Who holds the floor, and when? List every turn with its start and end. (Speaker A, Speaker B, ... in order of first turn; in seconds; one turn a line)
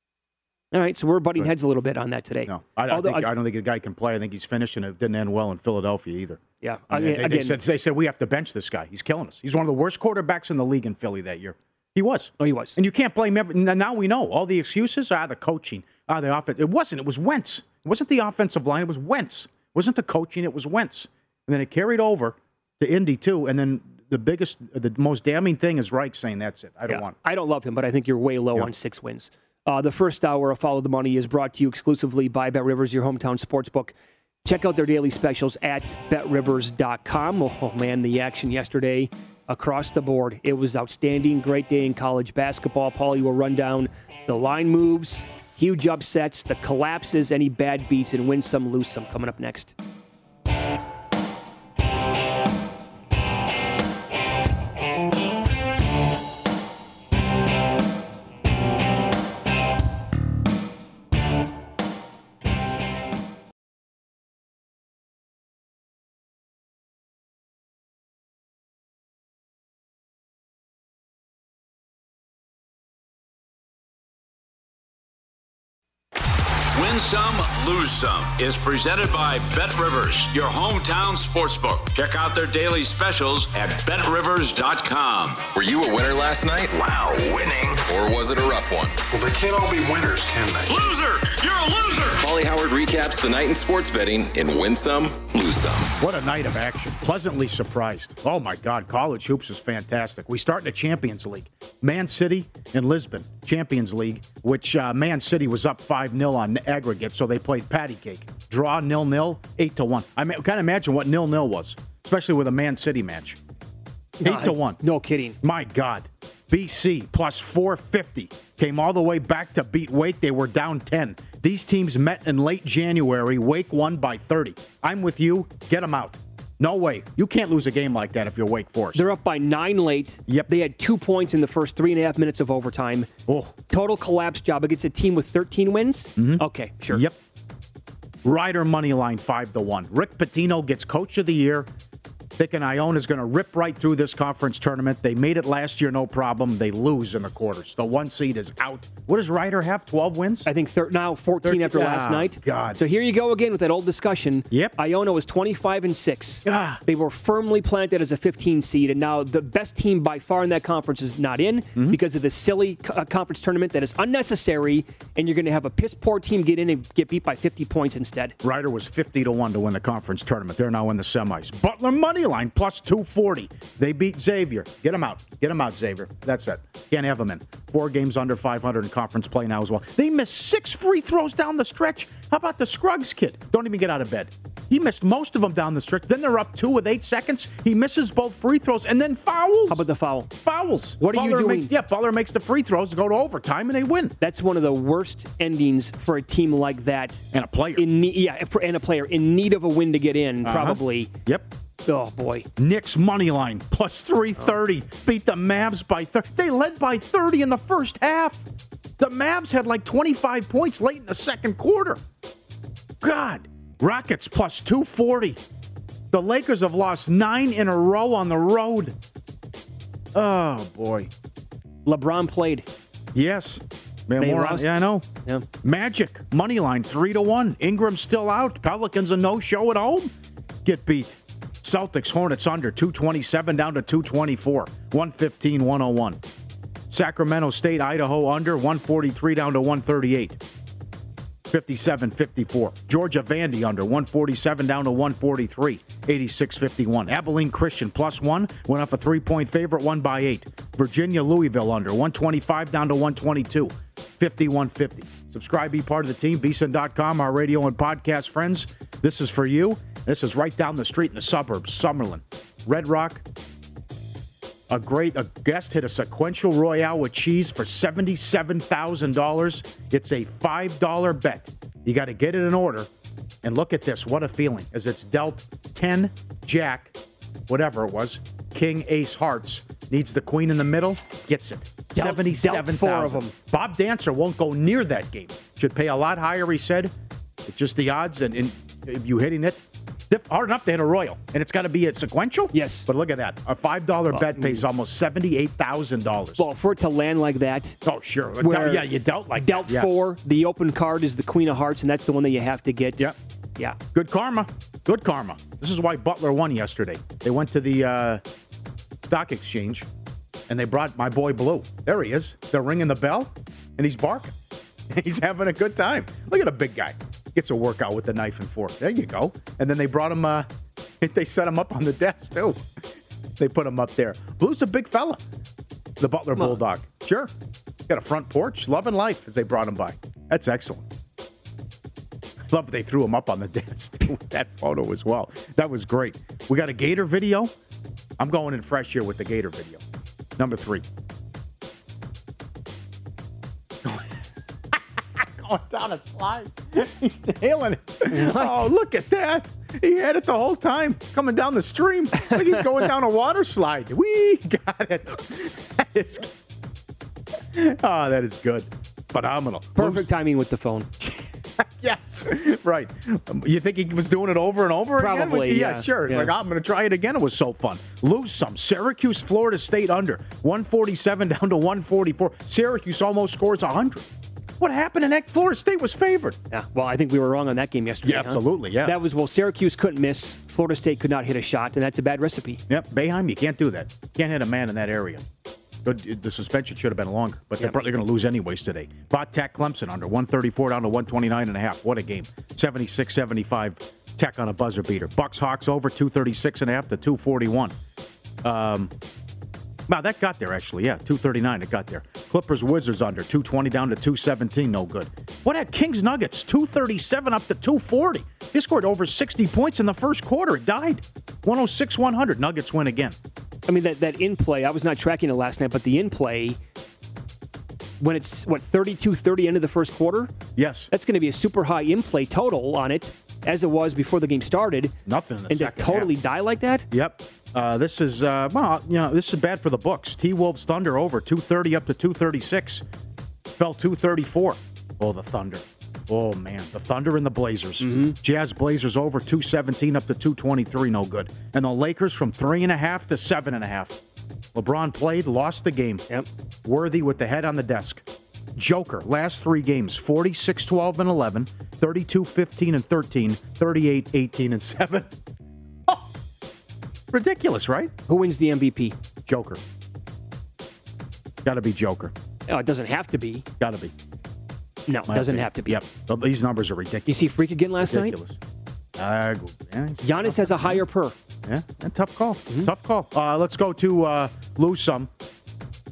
Speaker A: 0.7-3.3
Speaker B: 2.5-27.1
Speaker A: 6.6-7.6
Speaker A: 12.4-12.8
Speaker A: 26.9-49.7
Speaker C: 76.7-85.5
Speaker D: 85.5-86.7
Speaker E: 86.9-87.8
Speaker D: 87.8-89.0
Speaker E: 89.1-91.0
Speaker C: 90.7-92.2
Speaker D: 92.2-95.9
Speaker B: 96.0-113.4
Speaker A: 114.2-115.4
Speaker B: 114.2-114.8
Speaker B: 115.4-129.1
Speaker A: 128.9-133.1
Speaker B: 133.3-133.5
Speaker A: 133.7-137.0
Speaker B: 136.2-137.2
Speaker B: 138.2-141.7
Speaker B: 142.4-150.5
Speaker A: 150.4-168.3
Speaker B: 151.4-152.8
Speaker B: 154.5-154.8
Speaker B: 156.4-156.8
Speaker B: 168.4-194.2
Speaker A: 189.7-190.3
Speaker A: 191.0-191.7
Speaker A: 194.2-197.2
Speaker B: 197.3-197.9
Speaker A: 197.8-201.1
Speaker B: 200.4-201.5
Speaker A: 201.8-202.5
Speaker B: 202.6-208.4
Speaker B: 209.0-212.0
Speaker B: 213.0-215.4
Speaker B: 216.1-218.9
Speaker B: 220.1-221.1
Speaker A: 221.8-222.7
Speaker B: 223.1-225.1
Speaker A: 224.2-224.7
Speaker B: 225.6-230.1
Speaker B: 230.6-236.2
Speaker B: 236.9-240.4
Speaker B: 241.5-263.2
Speaker B: 264.7-272.9
Speaker B: 273.4-277.0
Speaker B: 277.5-286.9
Speaker A: 281.9-283.3
Speaker B: 287.4-296.5
Speaker A: 292.5-292.9
Speaker A: 294.1-294.6
Speaker A: 296.4-297.8
Speaker B: 297.8-300.0
Speaker A: 298.4-298.9
Speaker A: 299.4-303.8
Speaker B: 303.9-308.2
Speaker B: 309.0-309.9
Speaker B: 310.5-314.3
Speaker B: 314.9-320.5
Speaker B: 321.0-322.7
Speaker B: 323.4-325.2
Speaker B: 326.0-327.3
Speaker B: 327.9-330.9
Speaker B: 332.5-337.5
Speaker B: 338.2-339.8
Speaker B: 340.4-340.8
Speaker B: 343.8-344.2
Speaker B: 344.7-356.3
Speaker A: 348.1-348.7
Speaker B: 357.5-360.1
Speaker A: 359.8-360.9
Speaker B: 361.0-374.1
Speaker A: 365.0-366.3
Speaker B: 374.6-376.4
Speaker A: 376.5-382.6
Speaker B: 378.0-379.0
Speaker B: 382.7-385.2
Speaker B: 385.8-397.7
Speaker B: 398.4-398.9
Speaker B: 399.9-413.1
Speaker A: 413.7-416.6
Speaker A: 418.0-420.3
Speaker B: 420.6-420.9
Speaker A: 420.9-424.9
Speaker B: 425.0-426.1
Speaker A: 425.5-426.9
Speaker B: 426.9-432.8
Speaker B: 433.5-444.0
Speaker A: 437.8-438.2
Speaker B: 444.5-446.1
Speaker B: 446.6-455.1
Speaker B: 457.1-457.9
Speaker A: 458.1-458.9
Speaker B: 459.3-459.6
Speaker B: 461.4-462.1
Speaker A: 462.5-463.4
Speaker B: 463.6-463.9
Speaker A: 464.9-465.8
Speaker B: 465.1-468.4
Speaker A: 467.1-468.1
Speaker B: 468.9-470.8
Speaker A: 470.0-471.1
Speaker B: 471.4-475.1